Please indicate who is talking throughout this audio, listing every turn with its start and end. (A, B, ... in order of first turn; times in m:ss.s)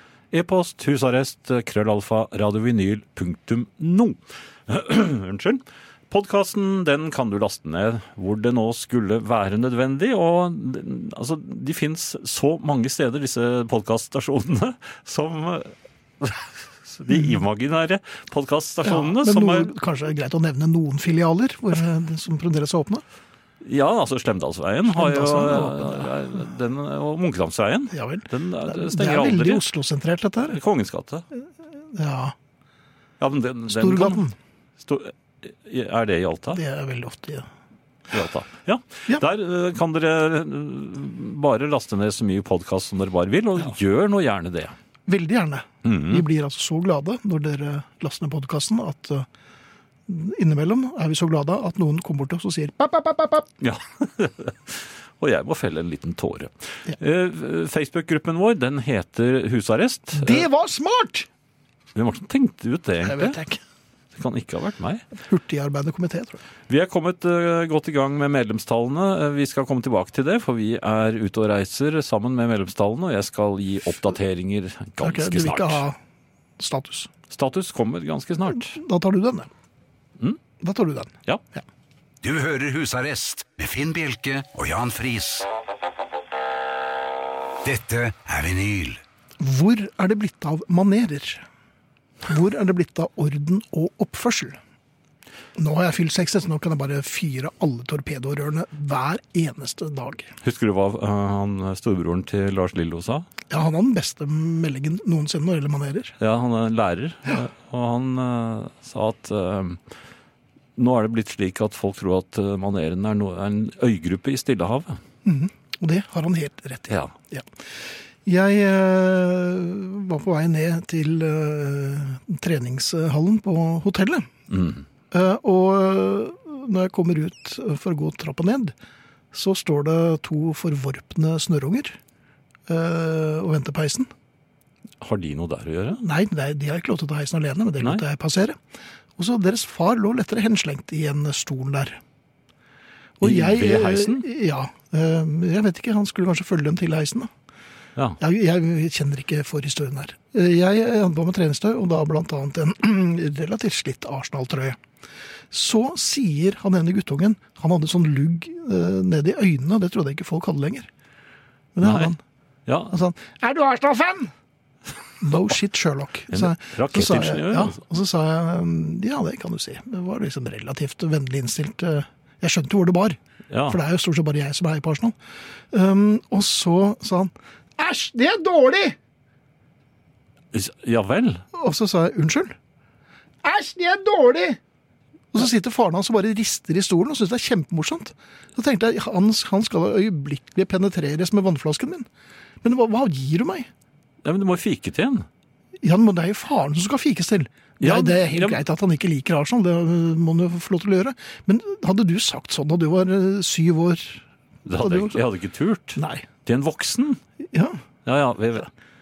0:00.3-0:19.7 A
0:18.8-0:23.0 B
0:23.6-0:29.6 A
0:24.9-0:26.1 B
0:27.9-0:30.6 B
0:30.5-0:31.2 A
0:31.9-0:32.4 B
0:33.2-0:34.2 A
0:33.7-0:34.4 B
0:34.8-0:36.6 A
0:36.5-0:37.5 B
0:38.1-0:44.8 A
0:45.1-0:49.3 B
0:45.8-0:46.2 A
0:50.1-0:53.5 B
0:53.6-1:00.5 A
1:00.2-1:01.3 B
1:02.0-1:03.4 A
1:03.0-1:03.6 B
1:04.2-1:05.0 A
1:05.3-1:06.4 B
1:06.7-1:15.8 A
1:15.0-1:16.0 B
1:16.6-1:17.1 B
1:17.3-1:18.8 A
1:18.7-1:19.5 B
1:20.6-1:21.6 B
1:22.2-1:25.5 C
1:27.6-1:29.0 C
1:29.4-1:31.4 B
1:32.3-1:34.6 B
1:35.6-1:40.3 B
1:40.4-1:43.3 A
1:43.5-1:46.1 B
1:46.2-1:49.8 A
1:50.8-1:55.0 A
1:55.2-1:57.5 B
1:58.2-2:04.3 B
2:04.5-2:04.8 A
2:05.1-2:08.8 B
2:09.3-2:12.0 B
2:12.7-2:14.1 B
2:15.0-2:16.0 A
2:16.0-2:18.6 B
2:19.2-2:22.0 B
2:23.2-2:27.3 B
2:23.2-2:24.2 A
2:28.2-2:34.8 B
2:35.5-2:40.9 B
2:41.8-2:42.2 B
2:41.8-2:42.1 A
2:42.7-2:42.9 A
2:42.9-2:44.3 B
2:45.2-2:55.2 B
2:46.3-2:47.8 A
2:53.5-2:53.8 A
2:55.7-2:59.0 B
3:00.5-3:01.4 A
3:01.6-3:02.6 B
3:03.4-3:04.6 B
3:05.3-3:12.1 B
3:12.6-3:13.7 B
3:14.2-3:15.3 A
3:15.8-3:24.2 B
3:17.8-3:18.6 A
3:24.7-3:27.2 A
3:24.8-3:25.2 B
3:26.0-3:26.3 B
3:27.5-3:27.8 B
3:28.0-3:28.7 A